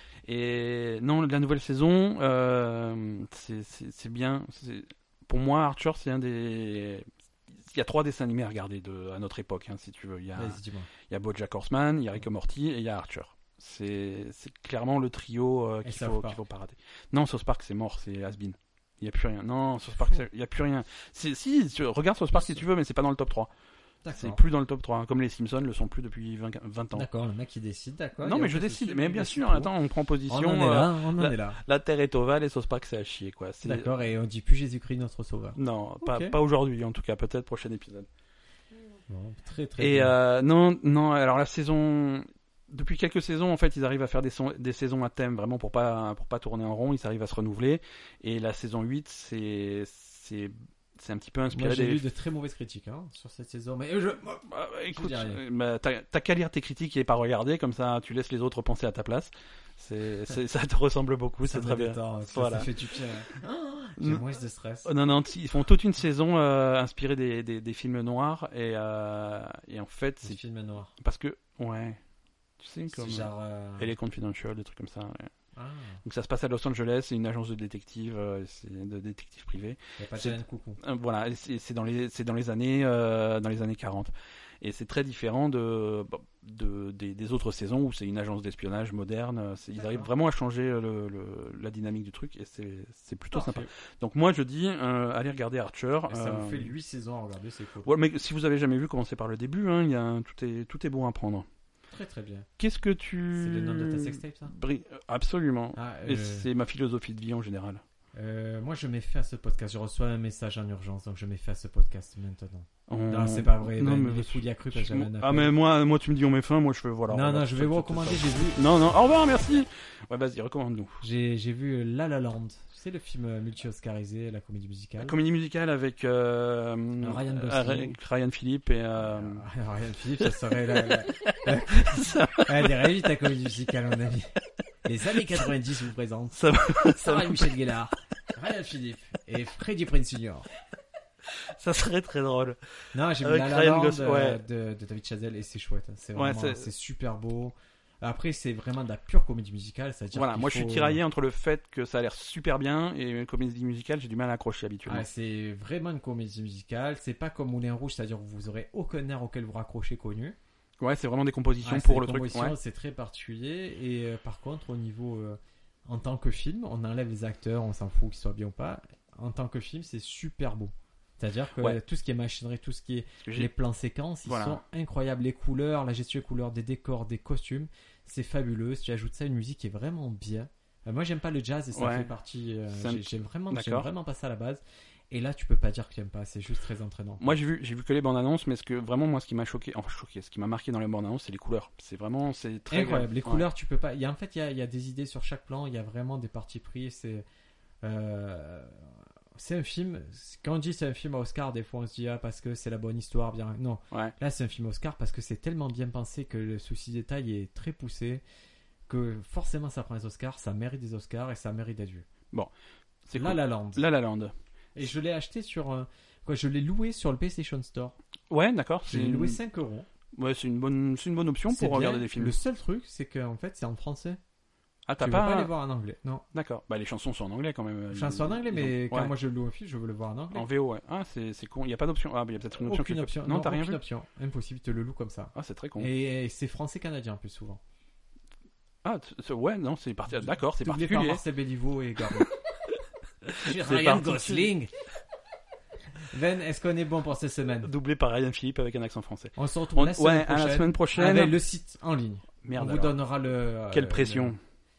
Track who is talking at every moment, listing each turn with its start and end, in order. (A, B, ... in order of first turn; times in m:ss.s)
0:00.3-0:23.5 A
0:10.4-0:10.9 B
0:15.8-0:16.4 B
0:24.0-0:24.4 B
0:24.1-0:27.1 A
0:26.9-0:29.7 B
0:28.2-0:33.9 A
0:30.3-0:31.6 B
0:33.6-0:36.4 B
0:35.6-0:38.1 A
0:39.1-0:40.1 B
0:39.8-0:52.0 A
0:51.5-0:55.4 B
0:54.5-1:02.7 A
1:01.4-1:04.9 B
1:04.8-1:10.4 A
1:10.2-1:10.9 B
1:11.0-1:12.0 A
1:12.6-1:15.3 A
1:12.9-1:13.9 B
1:15.6-1:16.0 B
1:16.0-1:36.7 A
1:20.0-1:20.8 B
1:29.8-1:30.1 B
1:33.3-1:33.7 B
1:36.1-1:37.9 B
1:37.8-1:41.5 A
1:41.9-1:42.5 B
1:42.6-1:47.8 A
1:43.3-1:44.5 B
1:45.8-1:46.5 B
1:48.1-1:55.5 B
1:52.9-2:01.0 A
1:57.1-1:58.6 B
2:01.0-2:05.2 B
2:05.0-2:09.4 A
2:07.0-2:08.0 B
2:09.0-2:14.3 B
2:10.2-2:12.8 A
2:14.8-2:16.4 B
2:16.4-2:17.5 A
2:16.9-2:20.5 B
2:21.5-2:22.6 A
2:22.9-2:31.0 B
2:23.2-2:24.4 A
2:26.2-2:26.7 A
2:30.1-2:35.1 A
2:34.9-2:40.4 B
2:40.8-2:42.6 A
2:41.6-3:07.4 B
2:53.2-2:53.5 A
2:54.2-2:54.6 A
3:01.8-3:02.1 A
3:02.7-3:03.9 A
3:07.2-3:13.5 A
3:12.7-3:17.2 B
3:17.8-3:28.2 B
3:28.9-3:32.1 B
3:33.1-3:34.3 A
3:33.2-3:33.8 B
3:34.8-3:38.0 B
3:38.3-3:39.4 A
3:38.9-3:39.9 B
3:40.2-3:42.4 A
3:41.5-3:44.2 B
3:44.9-3:45.5 A
3:45.0-3:46.2 B
3:46.3-3:49.1 A
3:47.9-3:50.5 B
3:50.3-3:53.8 A
3:52.6-3:57.6 B
3:55.4-3:55.9 A
3:58.8-4:01.2 A
4:00.2-4:02.3 B
4:03.3-4:04.5 A
4:03.3-4:04.7 B
4:06.1-4:07.7 B
4:07.6-4:11.4 A
4:09.4-4:14.3 B
4:12.4-4:13.0 A
4:13.7-4:14.4 A